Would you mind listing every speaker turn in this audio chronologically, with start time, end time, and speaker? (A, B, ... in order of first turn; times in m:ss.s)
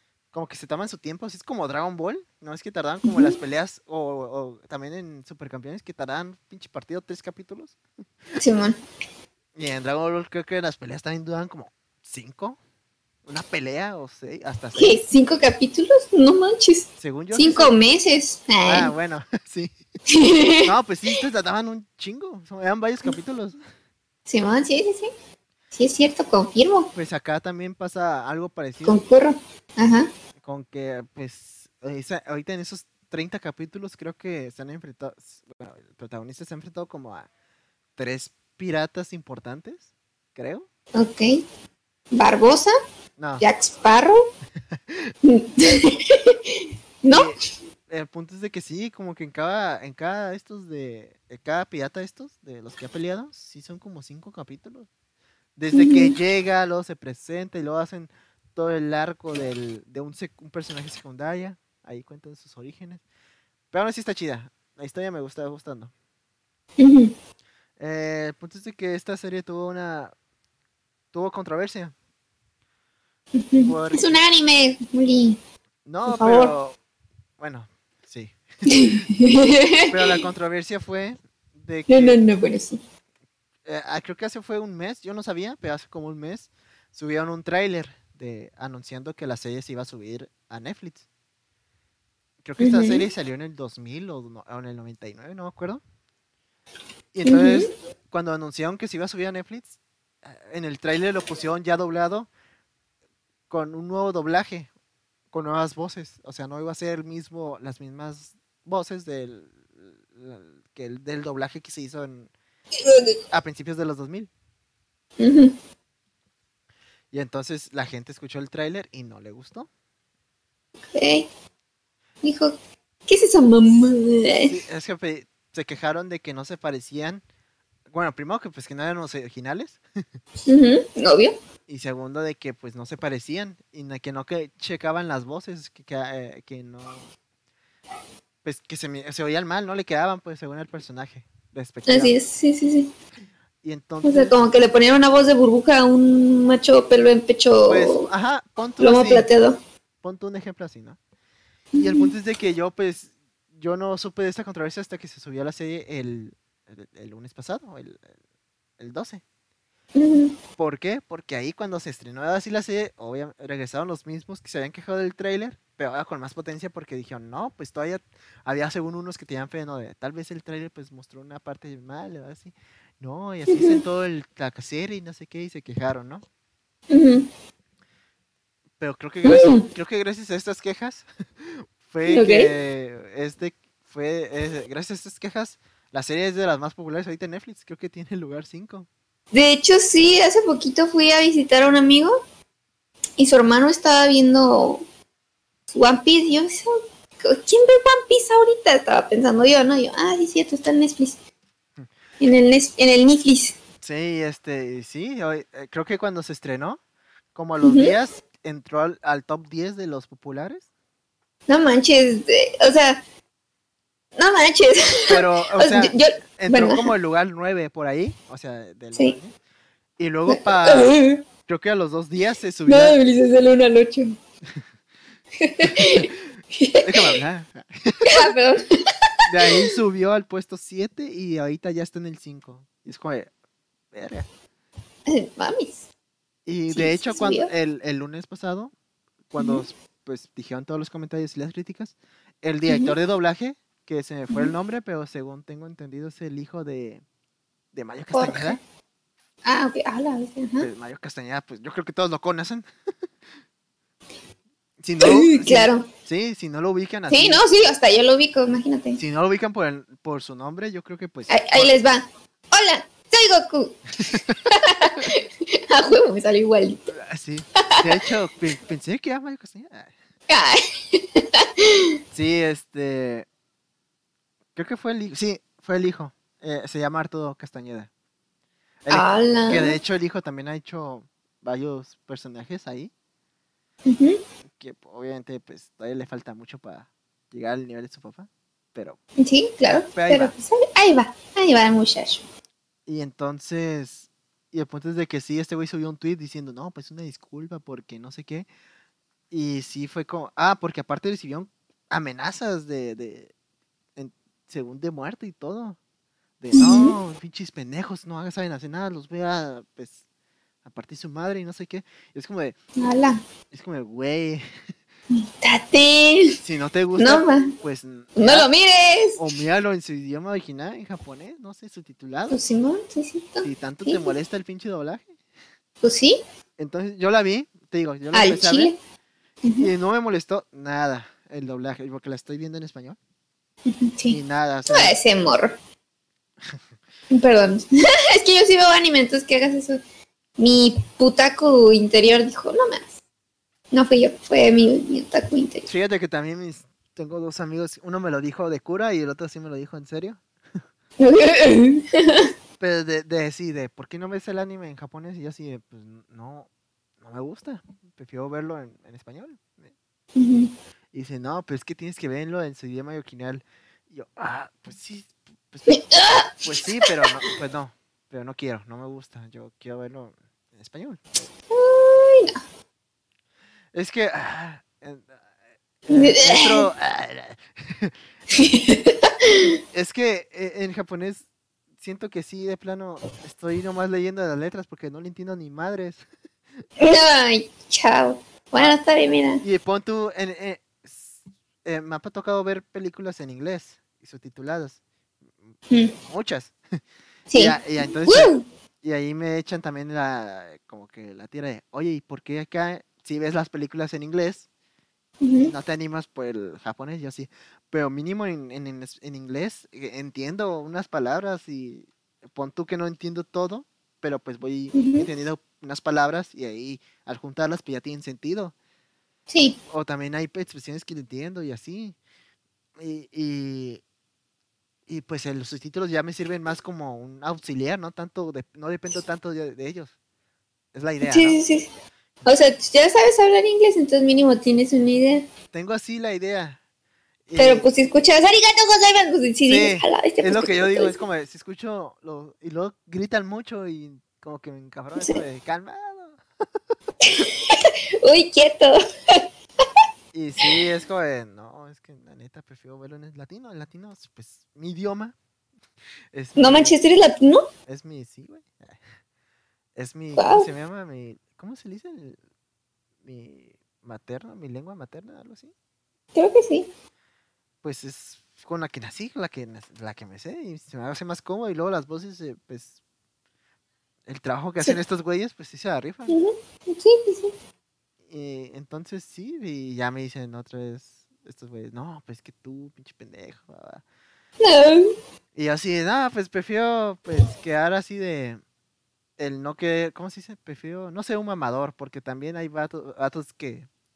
0:00.3-0:07.8 A
0:03.0-0:03.3 B
0:08.4-0:08.8 B
0:09.6-0:12.6 A
0:13.2-0:15.0 A
0:14.8-0:18.9 B
0:17.0-0:17.7 A
0:18.6-0:19.7 A
0:20.1-0:20.7 B
0:20.6-0:23.6 A
0:24.3-0:25.1 B
0:25.7-0:26.9 B
0:26.9-0:29.0 A
0:28.8-0:30.1 B
0:30.4-0:37.3 A
0:38.0-0:40.7 A
0:40.9-0:41.4 B
0:42.1-0:42.7 B
0:43.2-0:43.4 A
0:43.4-0:44.2 B
0:44.9-0:45.1 A
0:45.2-0:47.3 B
0:47.1-0:54.9 A
0:55.6-1:03.0 A
0:55.7-0:56.1 B
1:03.7-1:05.9 A
1:06.8-1:07.1 B
1:07.8-1:10.1 A
1:11.1-1:11.9 A
1:13.3-1:15.4 B
1:13.6-1:14.1 A
1:15.8-1:16.8 A
1:16.1-1:16.5 B
1:17.4-1:19.1 A
1:18.7-1:20.2 B
1:19.9-1:22.2 A
1:21.9-1:22.8 B
1:23.6-1:31.0 A
1:32.4-1:35.8 A
1:32.6-1:33.0 B
1:37.1-1:42.3 A
1:37.2-1:37.7 B
1:43.5-1:44.7 A
1:45.3-1:52.3 A
1:52.8-1:53.1 B
1:53.3-1:54.3 A
1:55.2-1:55.5 B
1:57.1-1:59.7 A
2:00.9-2:01.3 B
2:02.2-2:02.6 B
2:03.1-2:04.5 B
2:04.4-2:07.2 A
2:07.9-2:09.8 A
2:10.4-2:11.3 B
2:11.7-2:17.1 A
2:18.4-2:22.2 A
2:21.9-2:22.9 B
2:23.6-2:24.4 A
2:24.0-2:28.0 B
2:27.6-2:29.3 A
2:28.8-2:29.6 B
2:30.0-2:31.0 A
2:31.7-2:32.1 B
2:31.8-2:38.1 A
2:38.8-2:39.2 A
2:39.9-2:40.4 B
2:40.6-2:56.2 A
2:53.5-2:53.8 B
2:56.9-2:57.3 B
2:58.8-3:08.9 A
2:59.2-2:59.6 B
3:02.1-3:02.5 B
3:09.3-3:12.2 B
3:13.2-3:14.8 B
3:15.7-3:21.2 B
3:22.2-3:23.6 B
3:23.8-3:26.8 A
3:27.3-3:30.7 A
3:27.6-3:27.9 B
3:31.5-3:33.0 B
3:34.2-3:36.9 B
3:35.1-3:39.3 A
3:40.0-3:43.0 A
3:40.3-3:41.2 B
3:42.7-3:44.2 B
3:45.4-3:47.1 B
3:45.6-3:46.2 A
3:46.8-3:48.2 A
3:48.0-3:48.9 B
3:49.2-3:53.3 A
3:53.9-3:54.3 A
3:55.1-3:55.8 B
3:56.4-3:58.7 A
3:56.7-3:57.5 B
3:59.3-4:07.0 A
3:59.4-3:59.6 B
4:02.7-4:02.9 B
4:07.7-4:08.6 A
4:08.1-4:08.6 B
4:09.4-4:10.7 B
4:10.6-4:12.6 A
4:14.8-4:17.4 A
4:15.0-4:15.9 B
4:17.1-4:19.0 B
4:19.0-4:21.7 A
4:21.3-4:23.8 B
4:24.0-4:25.1 A
4:24.5-4:26.9 B
4:26.9-4:29.9 A
4:27.6-4:27.9 B
4:30.3-4:32.0 B
4:32.1-4:33.3 A
4:34.5-4:37.9 A
4:38.8-4:42.9 A
4:38.9-4:39.7 B
4:43.8-4:44.2 B
4:44.6-4:49.0 A
4:49.2-4:52.2 B
4:49.6-4:50.3 A
4:52.9-4:58.5 A
4:59.3-5:03.3 A
5:04.0-5:05.8 A
5:06.4-5:10.0 A
5:06.5-5:07.0 B
5:10.6-5:12.6 A
5:12.8-5:13.2 B
5:13.5-5:14.4 A
5:15.1-5:16.4 B
5:16.4-5:18.5 A
5:17.0-5:17.5 B
5:18.2-5:19.2 B
5:19.2-5:22.4 A
5:22.3-5:24.1 B
5:23.4-5:25.1 A
5:25.8-5:26.2 B
5:26.6-5:28.7 A
5:28.1-5:28.8 B
5:29.4-5:29.7 B
5:29.6-5:33.0 A
5:33.6-5:34.2 B
5:34.1-5:35.0 A
5:34.7-5:35.6 B
5:37.1-5:39.8 B
5:40.4-5:43.0 B
5:43.7-5:45.7 B
5:45.6-5:50.2 A
5:51.0-5:52.3 B
5:52.6-5:56.5 A
5:57.0-5:59.7 A
6:00.2-6:00.5 B
6:00.9-6:05.8 A
6:05.7-6:07.1 B
6:06.4-6:11.3 A
6:11.5-6:12.4 B
6:13.7-6:15.2 A
6:15.9-6:17.9 A
6:15.9-6:16.7 B
6:18.3-6:19.6 B
6:19.7-6:21.2 A
6:21.8-6:26.0 A
6:26.8-6:29.4 B
6:29.4-6:34.8 A
6:36.0-6:36.8 A
6:37.3-6:38.4 B
6:37.3-6:44.5 A
6:45.2-6:45.5 B
6:45.4-6:58.5 A
6:54.7-6:55.1 B
6:59.3-6:59.6 B
6:59.7-7:02.0 A
7:02.8-7:03.8 A
7:04.9-7:09.9 A
7:10.7-7:11.4 A
7:11.0-7:11.7 B
7:12.2-7:15.3 B
7:15.5-7:16.6 A
7:17.3-7:17.7 A
7:17.4-7:21.0 B
7:19.5-7:26.2 A
7:27.0-7:29.2 B
7:30.1-7:35.1 A
7:36.1-7:36.8 A
7:36.4-7:37.5 B
7:37.6-7:38.8 A
7:39.8-7:42.2 A
7:40.2-7:40.5 B
7:43.0-7:45.5 A
7:46.1-7:46.7 B
7:47.6-7:52.8 A
7:54.1-7:56.2 A
7:56.1-7:57.3 B
7:58.1-8:03.8 A
8:04.4-8:04.9 B
8:05.3-8:08.4 A
8:09.2-8:13.7 A